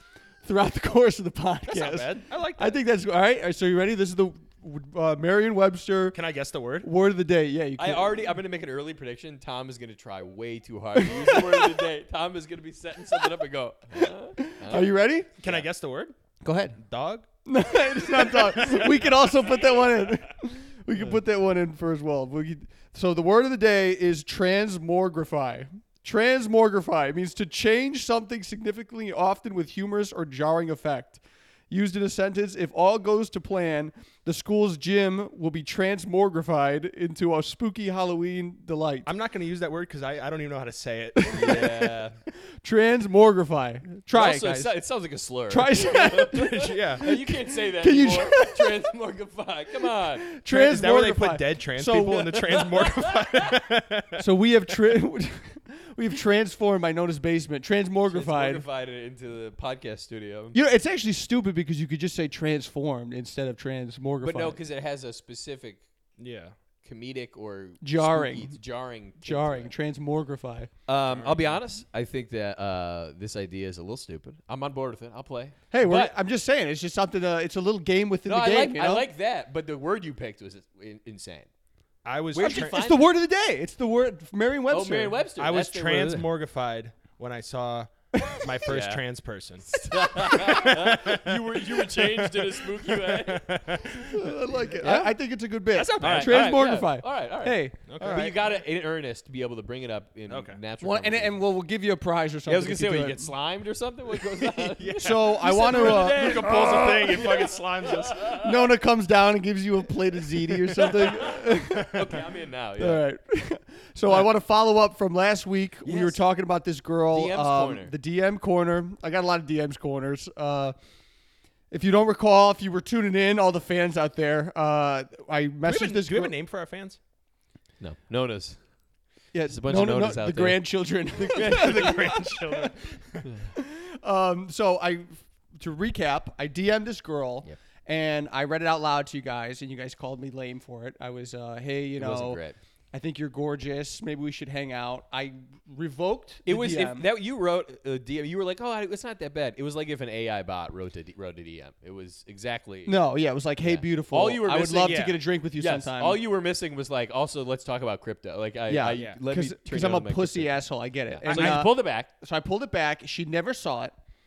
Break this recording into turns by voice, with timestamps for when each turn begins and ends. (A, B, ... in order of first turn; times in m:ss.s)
0:00.4-0:06.2 A
0:01.7-0:02.8 B
0:06.1-0:06.9 B
0:06.8-0:08.3 A
0:07.8-0:15.7 C
0:11.0-0:11.9 A
0:14.0-0:15.3 A
0:15.4-0:16.1 B
0:16.4-0:16.8 A
0:16.8-0:17.2 B
0:17.4-0:39.1 A
0:18.0-0:19.8 B
0:39.0-0:41.7 B
0:41.2-0:44.8 A
0:41.3-0:42.2 C
0:44.1-0:50.2 C
0:45.5-0:48.8 A
0:46.5-0:47.1 B
0:49.8-0:52.6 A
0:50.5-0:54.2 B
0:52.8-0:53.6 C
0:54.2-0:58.6 A
0:58.1-1:00.6 C
1:00.5-1:04.6 A
1:04.2-1:05.8 C
1:06.2-1:06.5 B
1:06.8-1:09.7 C
1:07.8-1:08.6 A
1:09.2-1:10.7 A
1:10.9-1:16.1 C
1:11.0-1:11.6 B
1:15.7-1:19.1 A
1:18.2-1:21.5 C
1:22.0-1:22.8 B
1:22.3-1:23.1 C
1:22.4-1:25.2 A
1:24.7-1:26.3 C
1:25.4-1:34.2 B
1:28.2-1:28.5 A
1:28.6-1:29.0 C
1:29.7-1:33.7 C
1:29.9-1:30.5 A
1:34.0-1:37.8 A
1:34.8-1:35.1 C
1:35.7-1:36.6 B
1:36.0-1:41.4 C
1:37.9-1:38.4 B
1:40.3-1:40.6 B
1:40.8-1:43.3 A
1:42.5-1:48.7 C
1:44.3-1:47.5 A
1:44.8-1:48.2 B
1:48.2-1:52.2 A
1:50.7-1:53.0 C
1:52.8-2:00.7 A
1:55.8-1:56.2 C
1:57.1-1:57.9 C
2:01.7-2:06.3 A
2:05.6-2:07.0 B
2:07.8-2:08.6 C
2:09.3-2:12.7 A
2:09.4-2:12.2 C
2:11.2-2:13.3 B
2:13.2-2:13.5 C
2:13.5-2:22.4 A
2:22.0-2:22.6 C
2:22.9-2:27.1 A
2:26.5-2:33.0 C
2:32.8-2:36.2 A
2:33.6-2:42.1 C
2:34.8-2:35.2 B
2:38.7-2:43.9 A
2:38.9-2:39.2 B
2:41.2-2:41.6 B